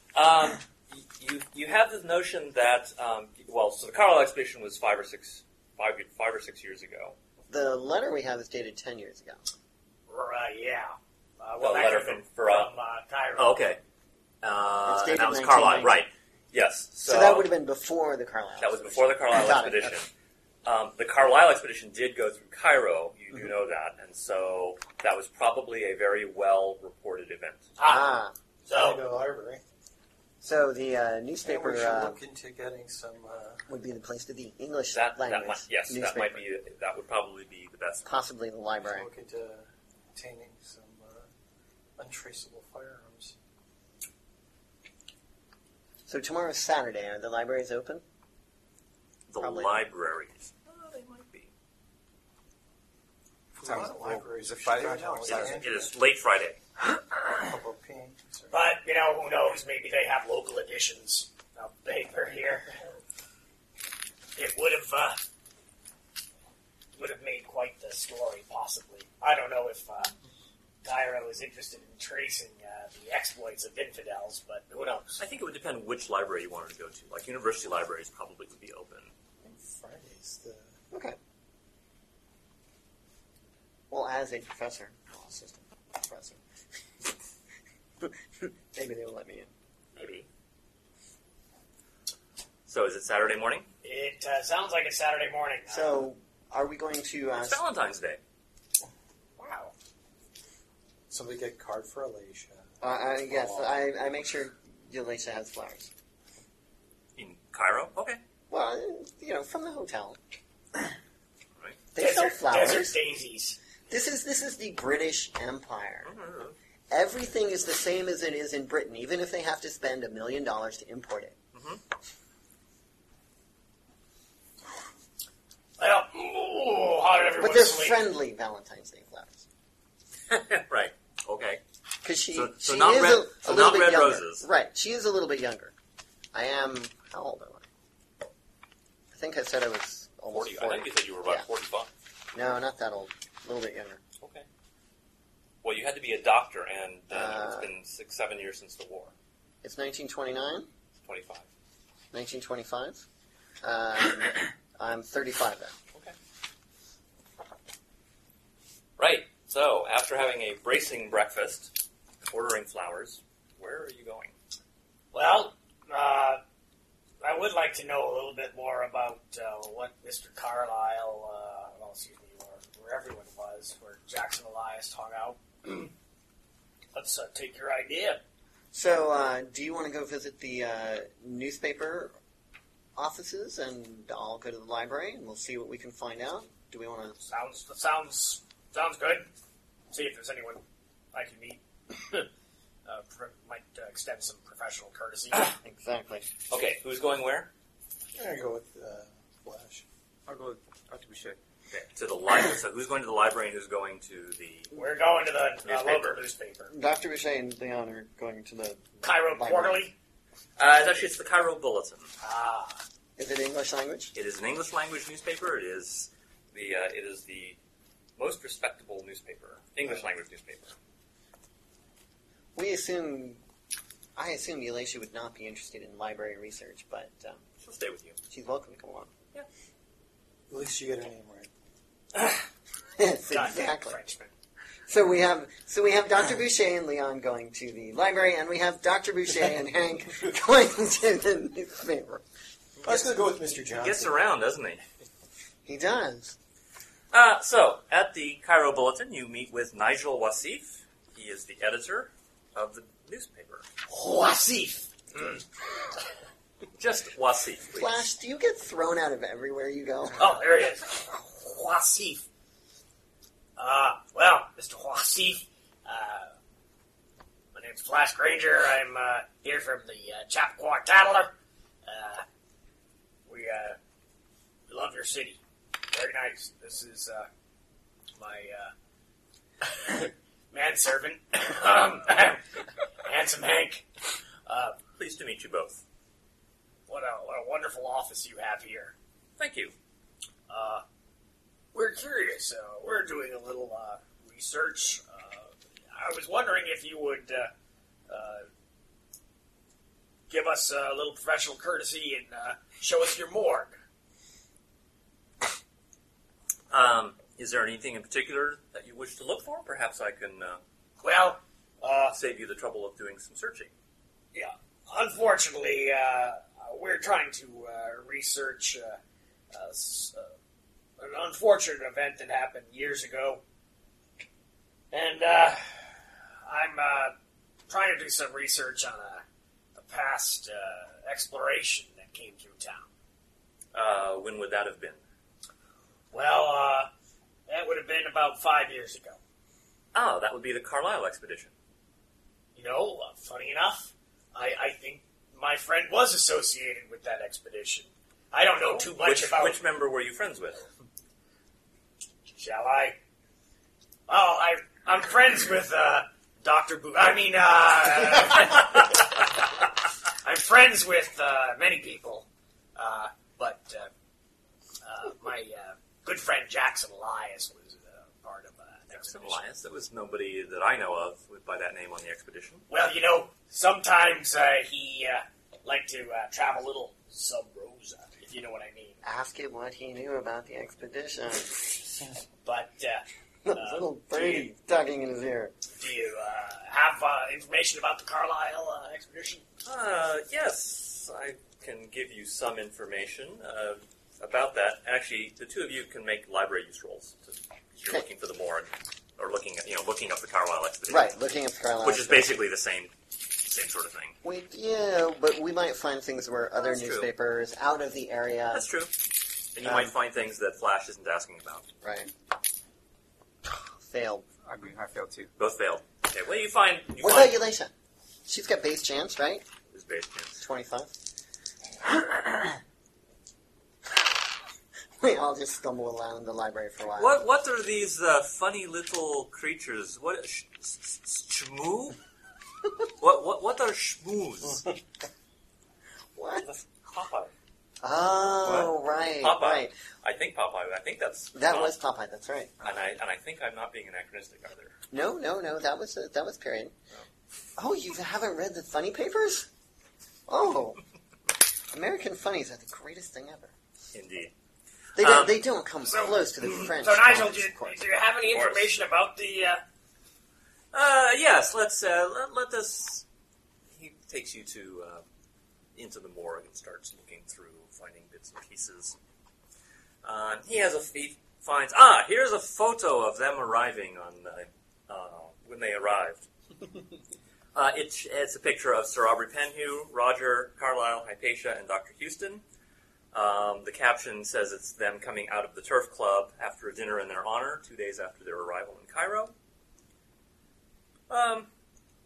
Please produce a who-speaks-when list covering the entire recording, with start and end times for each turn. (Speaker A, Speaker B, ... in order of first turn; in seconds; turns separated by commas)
Speaker A: 0.1-7.2, Speaker B: 7.5-9.4, Speaker C: 10.1-13.6, Speaker A: 11.6-12.7, Speaker A: 13.4-13.8, Speaker A: 14.4-17.5, Speaker B: 14.8-16.0, Speaker B: 17.0-20.0, Speaker A: 18.6-20.1, Speaker A: 20.6-27.6, Speaker C: 27.8-28.1, Speaker B: 27.8-28.4, Speaker D: 28.7-29.6, Speaker C: 28.7-29.0, Speaker B: 30.4-32.2, Speaker D: 31.4-33.6, Speaker B: 33.7-36.4, Speaker A: 34.9-38.1, Speaker B: 38.0-39.1, Speaker D: 38.9-41.3, Speaker D: 42.0-43.4, Speaker B: 46.1-48.0, Speaker A: 49.3-51.5, Speaker B: 49.4-49.8, Speaker D: 53.6-55.9, Speaker E: 53.6-55.6, Speaker A: 55.3-56.6, Speaker D: 57.3-58.5, Speaker C: 58.5-62.7, Speaker C: 64.3-65.2, Speaker C: 67.0-70.2, Speaker C: 70.8-75.2, Speaker A: 75.2-79.1, Speaker D: 79.4-80.8, Speaker B: 80.9-81.2, Speaker B: 83.9-86.4, Speaker B: 88.0-89.5, Speaker A: 90.0-90.3, Speaker A: 92.7-93.7, Speaker C: 93.8-96.0, Speaker B: 95.7-97.6, Speaker A: 97.4-98.2, Speaker C: 99.4-99.7, Speaker D: 101.1-102.7, Speaker B: 102.8-105.9, Speaker D: 103.3-103.7, Speaker A: 107.2-108.2, Speaker B: 108.5-110.2, Speaker B: 111.9-113.0, Speaker C: 112.0-113.6, Speaker B: 113.9-116.1, Speaker A: 116.0-116.5, Speaker B: 116.9-121.4, Speaker A: 121.5-121.8, Speaker C: 125.8-128.0, Speaker B: 127.4-129.4, Speaker A: 130.3-131.6, Speaker B: 132.0-135.7, Speaker A: 132.3-134.5, Speaker B: 136.3-137.6, Speaker B: 139.1-141.5, Speaker A: 140.3-141.9, Speaker B: 142.3-144.0, Speaker A: 144.2-144.5, Speaker A: 145.6-149.1, Speaker B: 147.1-147.7, Speaker B: 149.6-150.7, Speaker A: 151.0-151.5, Speaker B: 152.1-153.0, Speaker B: 153.6-155.7, Speaker A: 159.0-164.3, Speaker C: 165.1-166.4, Speaker C: 167.2-175.9, Speaker C: 176.9-178.2, Speaker B: 178.7-182.1, Speaker B: 183.0-187.2, Speaker C: 187.2-189.3, Speaker C: 189.9-192.3, Speaker C: 192.9-195.5, Speaker B: 195.6-196.3, Speaker A: 196.5-197.5, Speaker D: 198.2-199.8, Speaker E: 200.3-201.4, Speaker A: 201.7-204.7, Speaker C: 204.7-206.7, Speaker A: 205.6-206.2, Speaker B: 206.7-209.8, Speaker C: 209.0-209.9, Speaker A: 210.6-212.1, Speaker C: 212.2-212.8, Speaker B: 213.2-214.1, Speaker A: 214.2-217.6, Speaker A: 218.2-220.8, Speaker B: 222.6-223.4, Speaker B: 224.2-227.4, Speaker A: 227.6-228.2, Speaker B: 228.3-229.1, Speaker D: 230.5-231.5, Speaker B: 233.0-234.0, Speaker C: 233.3-234.3, Speaker B: 234.9-242.2, Speaker D: 242.8-244.2, Speaker A: 243.7-244.8, Speaker B: 245.7-246.4, Speaker A: 247.1-253.7, Speaker C: 253.9-255.9, Speaker A: 256.8-258.1, Speaker B: 257.7-260.3, Speaker C: 260.2-262.2, Speaker C: 263.6-266.3, Speaker C: 267.5-271.3, Speaker C: 271.9-272.2, Speaker C: 273.3-273.8, Speaker C: 274.7-275.4, Speaker C: 275.9-277.3, Speaker C: 278.2-278.7, Speaker C: 279.6-283.9, Speaker C: 284.5-284.8, Speaker A: 285.0-285.8, Speaker C: 286.9-288.9, Speaker A: 289.4-289.7, Speaker C: 290.5-290.8, Speaker C: 291.7-297.5, Speaker C: 298.1-298.5, Speaker C: 300.3-303.7, Speaker A: 306.7-310.6, Speaker C: 311.0-312.1, Speaker A: 312.1-313.7, Speaker C: 314.3-319.0, Speaker C: 319.5-320.3, Speaker C: 321.0-323.4, Speaker C: 324.9-327.1, Speaker C: 327.7-329.2, Speaker C: 329.8-332.9, Speaker A: 333.7-335.0, Speaker C: 336.1-336.9, Speaker C: 337.5-339.2, Speaker A: 339.9-341.5, Speaker C: 342.6-349.6, Speaker A: 348.9-350.6, Speaker C: 352.4-353.0, Speaker C: 354.1-359.3, Speaker C: 360.2-363.9, Speaker C: 364.8-369.4, Speaker A: 368.9-372.7, Speaker C: 372.7-379.0, Speaker B: 379.0-382.1, Speaker C: 382.4-384.5, Speaker B: 383.4-385.6, Speaker C: 385.8-389.4, Speaker A: 389.6-401.1, Speaker B: 400.9-402.3, Speaker A: 401.8-404.2, Speaker B: 404.2-408.7, Speaker A: 406.6-407.1, Speaker A: 408.5-409.0, Speaker A: 409.5-411.7, Speaker B: 409.6-409.9, Speaker B: 411.8-412.1, Speaker B: 413.8-414.3, Speaker E: 414.4-415.3, Speaker A: 415.4-417.4, Speaker B: 417.0-417.7, Speaker B: 418.3-419.5, Speaker A: 419.7-420.4, Speaker B: 420.4-420.9, Speaker B: 425.0-427.2, Speaker A: 427.0-432.0, Speaker A: 433.0-434.7, Speaker B: 436.1-436.5, Speaker A: 436.4-437.3, Speaker B: 437.8-439.7, Speaker A: 438.4-441.8, Speaker B: 441.3-442.5, Speaker A: 442.6-444.8, Speaker B: 444.9-446.7, Speaker B: 447.6-449.5, Speaker B: 450.3-450.8, Speaker B: 451.7-453.5, Speaker A: 453.9-454.3, Speaker B: 455.0-457.8, Speaker A: 455.0-455.4, Speaker C: 455.9-459.6, Speaker A: 458.3-458.7, Speaker A: 460.7-463.0, Speaker A: 463.7-465.0, Speaker A: 465.8-469.0, Speaker A: 470.0-476.3, Speaker A: 477.6-482.4, Speaker A: 483.1-489.3, Speaker A: 491.1-491.5